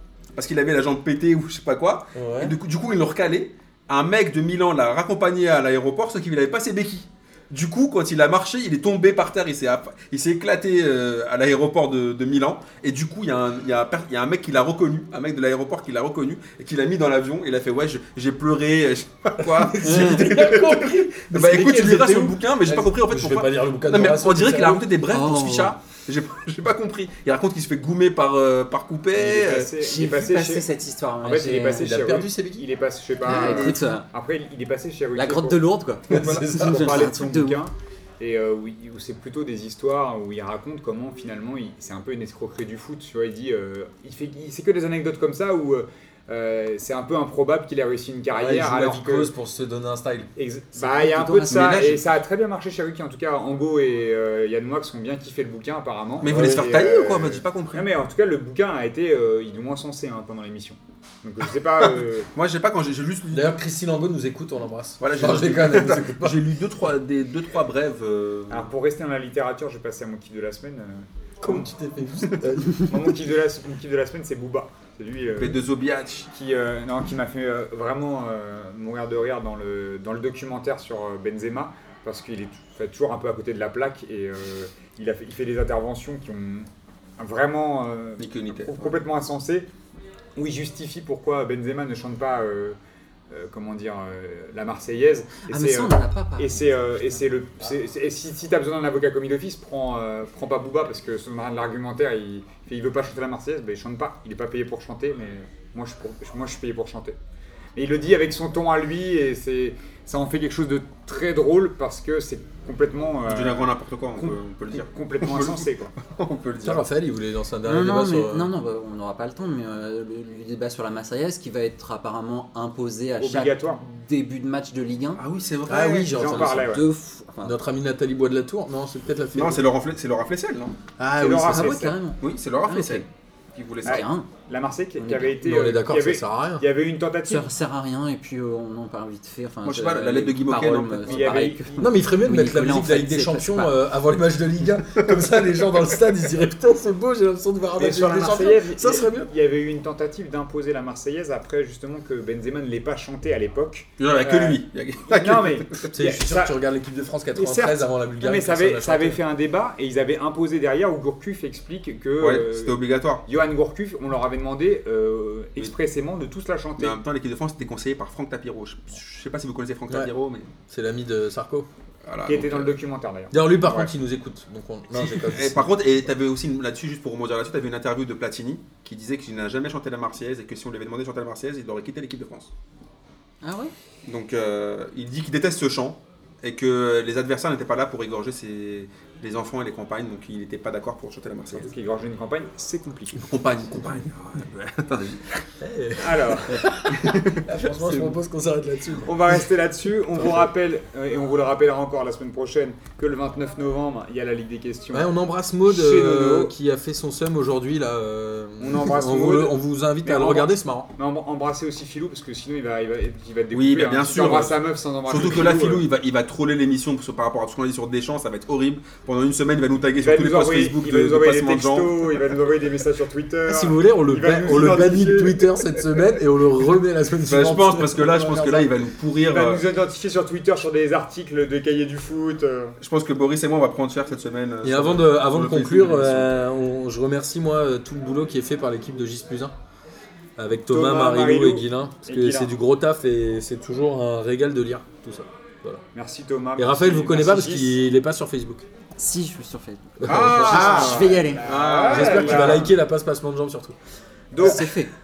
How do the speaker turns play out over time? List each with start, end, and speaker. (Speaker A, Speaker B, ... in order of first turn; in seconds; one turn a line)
Speaker A: 0.3-29.7
Speaker B: 2.1-2.5
Speaker B: 19.4-24.9
Speaker C: 19.8-20.3
Speaker C: 25.1-25.7
Speaker D: 29.2-30.7
Speaker C: 29.6-31.9
Speaker D: 31.2-49.3
Speaker B: 31.7-32.7
Speaker C: 33.2-34.0
Speaker A: 33.2-33.9
Speaker C: 35.1-37.6
Speaker B: 36.1-37.1
Speaker B: 48.3-50.3
Speaker D: 50.4-62.3
Speaker C: 50.8-51.9
Speaker A: 51.5-52.0
Speaker A: 56.2-57.9
Speaker B: 56.2-56.8
Speaker A: 62.3-63.5
Speaker B: 63.3-66.6
Speaker A: 65.0-68.7
Speaker D: 68.5-71.7
Speaker B: 71.4-73.1
Speaker D: 72.9-75.6
Speaker A: 75.3-76.3
Speaker D: 76.3-86.7
Speaker D: 87.2-89.7
Speaker A: 88.2-89.0
Speaker D: 90.3-92.8
Speaker D: 93.3-107.2
Speaker C: 95.5-97.2
Speaker D: 107.8-115.9
Speaker A: 113.3-116.8
Speaker B: 116.6-118.5
Speaker C: 117.6-125.2
Speaker D: 123.2-123.8
Speaker A: 125.2-126.2
Speaker B: 125.7-126.8
Speaker D: 126.1-126.8
Speaker C: 126.3-127.5
Speaker B: 127.4-129.6
Speaker A: 129.3-130.8
Speaker B: 131.0-131.8
Speaker D: 131.2-132.0
Speaker C: 131.5-133.1
Speaker A: 132.2-134.1
Speaker C: 133.8-134.3
Speaker D: 133.8-137.5
Speaker C: 135.0-135.4
Speaker B: 135.4-136.6
Speaker C: 137.3-143.7
Speaker A: 139.6-141.4
Speaker D: 141.1-141.9
Speaker B: 141.8-149.3
Speaker D: 147.8-156.5
Speaker A: 154.0-155.9
Speaker B: 155.9-159.2
Speaker D: 157.3-167.0
Speaker A: 162.2-163.2
Speaker A: 166.8-170.5
Speaker B: 170.7-171.7
Speaker A: 172.1-172.8
Speaker D: 172.2-173.3
Speaker B: 173.3-175.8
Speaker A: 174.9-182.5
Speaker C: 183.4-183.7
Speaker A: 184.1-191.7
Speaker D: 191.5-193.2
Speaker A: 193.2-195.4
Speaker B: 195.6-199.4
Speaker D: 196.0-196.7
Speaker A: 196.9-198.2
Speaker D: 199.0-205.1
Speaker B: 200.2-200.4
Speaker B: 204.9-210.9
Speaker D: 205.7-206.5
Speaker D: 208.6-215.8
Speaker A: 213.5-214.6
Speaker A: 215.1-222.1
Speaker D: 220.0-225.5
Speaker B: 223.5-228.7
Speaker A: 227.3-229.7
Speaker D: 229.3-232.8
Speaker A: 232.8-236.3
Speaker B: 234.6-239.5
Speaker B: 240.4-245.8
Speaker D: 240.7-242.5
Speaker D: 245.9-247.7
Speaker B: 246.6-248.7
Speaker C: 249.0-251.4
Speaker B: 250.0-251.1
Speaker A: 250.0-252.7
Speaker D: 250.5-252.7
Speaker B: 251.8-253.7
Speaker D: 254.3-254.7
Speaker C: 254.4-254.9
Speaker B: 254.4-254.7